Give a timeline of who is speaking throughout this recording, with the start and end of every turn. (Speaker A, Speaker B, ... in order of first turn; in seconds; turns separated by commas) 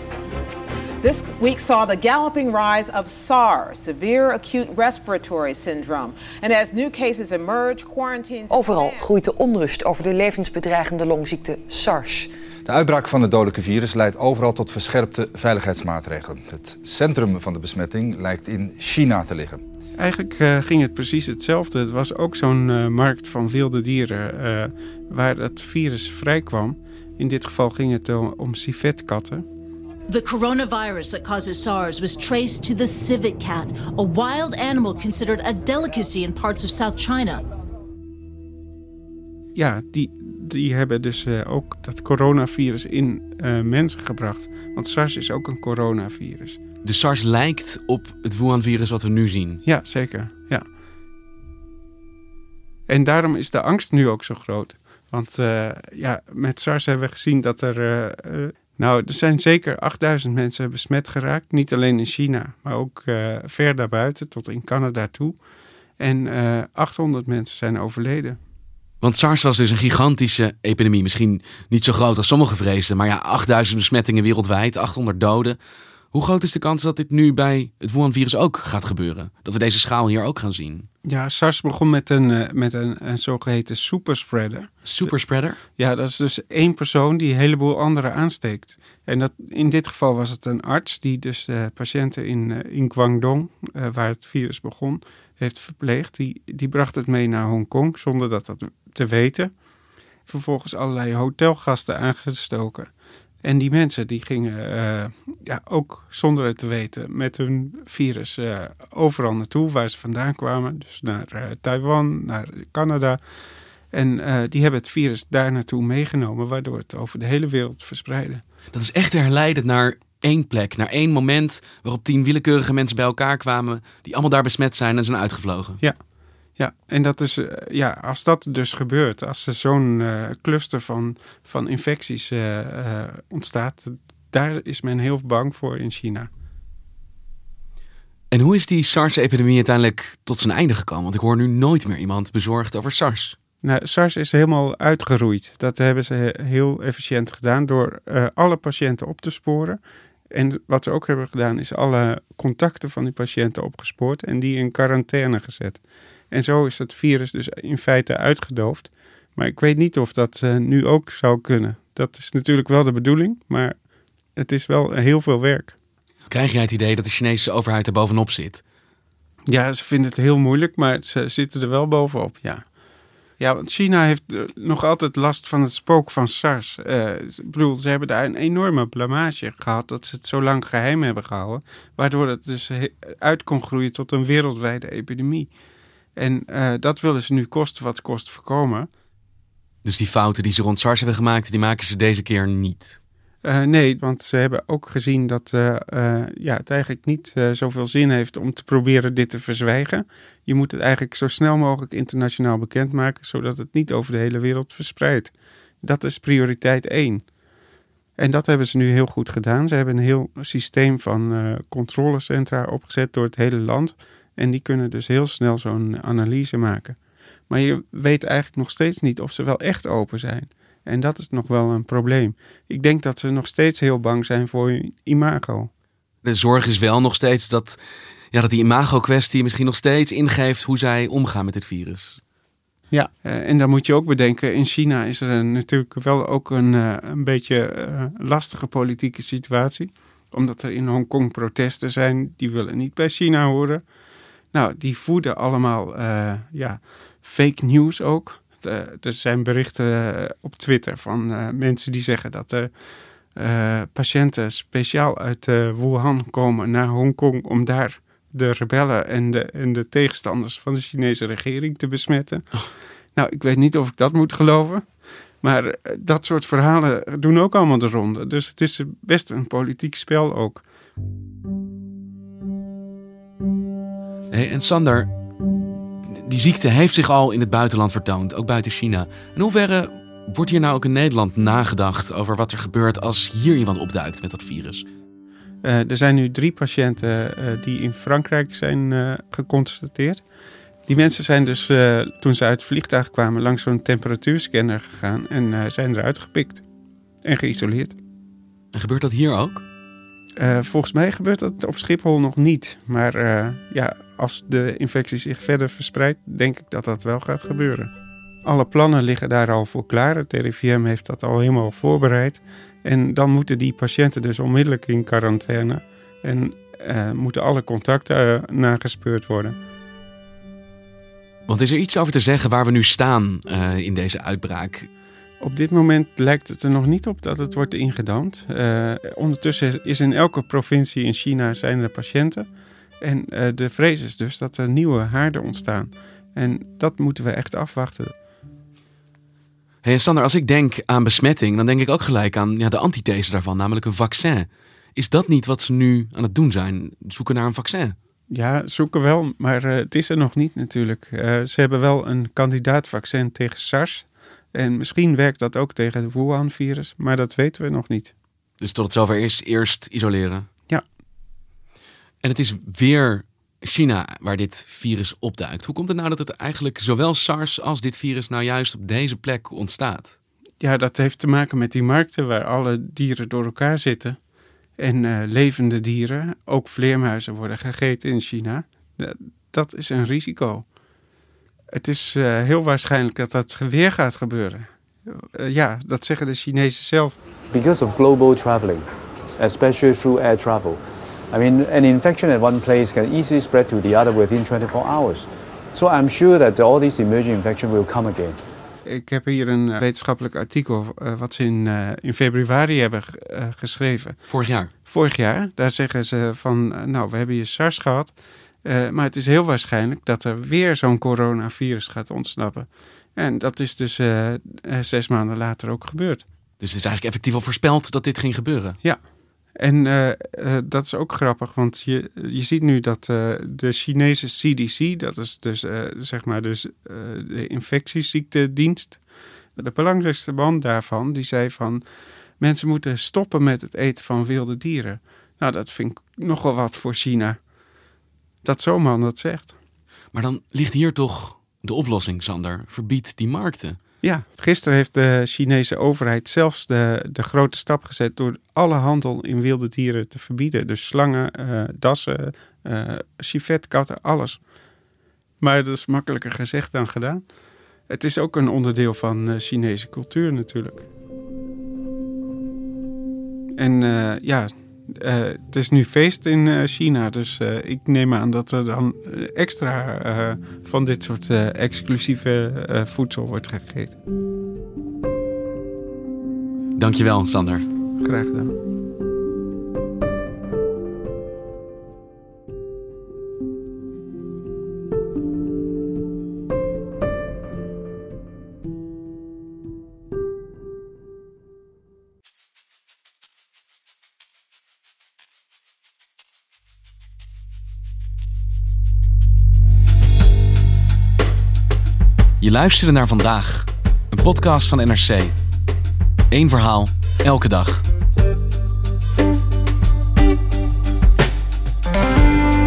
Speaker A: 1.0-9.1, Speaker B: 8.5-12.3, Speaker C: 12.6-19.6, Speaker D: 20.0-29.4, Speaker E: 30.1-37.4, Speaker D: 39.5-46.6, Speaker F: 46.8-49.6, Speaker D: 49.6-50.6, Speaker D: 52.9-65.4, Speaker D: 66.0-68.4, Speaker F: 69.0-75.6, Speaker F: 76.1-80.9, Speaker D: 81.0-84.7, Speaker F: 84.8-85.6, Speaker D: 85.8-99.5, Speaker D: 100.3-102.9, Speaker D: 103.4-113.2, Speaker D: 113.9-118.4, Speaker F: 118.7-125.8, Speaker D: 126.6-136.3, Speaker F: 138.3-143.4, Speaker D: 143.6-149.8, Speaker D: 150.3-163.8, Speaker D: 164.4-165.8, Speaker F: 166.3-168.6, Speaker D: 169.5-172.6, Speaker D: 173.4-185.5, Speaker D: 186.2-188.9, Speaker F: 189.8-193.0, Speaker D: 193.4-207.2, Speaker D: 208.2-217.0, Speaker D: 217.5-225.7, Speaker F: 226.2-227.8, Speaker F: 228.3-232.2, Speaker D: 232.9-243.8, Speaker D: 244.5-252.7, Speaker D: 253.4-262.4, Speaker D: 263.1-264.8, Speaker D: 265.4-270.6, Speaker F: 274.3-275.1, Speaker F: 276.1-284.8, Speaker D: 285.6-290.2, Speaker D: 290.9-296.6, Speaker D: 297.2-297.9, Speaker F: 298.7-299.6, Speaker D: 300.4-307.9, Speaker D: 308.4-319.6, Speaker F: 321.5-324.9, Speaker D: 325.4-332.5, Speaker D: 333.0-338.1, Speaker F: 339.8-347.9, Speaker D: 348.3-358.1, Speaker F: 358.6-360.5, Speaker F: 362.2-370.1, Speaker D: 370.6-374.2, Speaker D: 374.8-380.6, Speaker D: 381.7-387.2, Speaker G: 387.5-388.9, Speaker G: 389.4-398.4, Speaker D: 398.9-404.2, Speaker F: 404.3-404.7, Speaker D: 404.9-416.2, Speaker F: 416.6-418.8, Speaker D: 419.6-429.0, Speaker D: 429.6-431.8, Speaker D: 432.4-437.4, Speaker D: 438.4-439.6, Speaker F: 440.1-443.8, Speaker D: 444.0-454.4, Speaker D: 455.4-457.2, Speaker D: 457.9-460.9, Speaker D: 463.6-474.0, Speaker F: 476.8-477.6, Speaker D: 478.0-478.5, Speaker F: 502.4-505.4, Speaker F: 506.3-507.8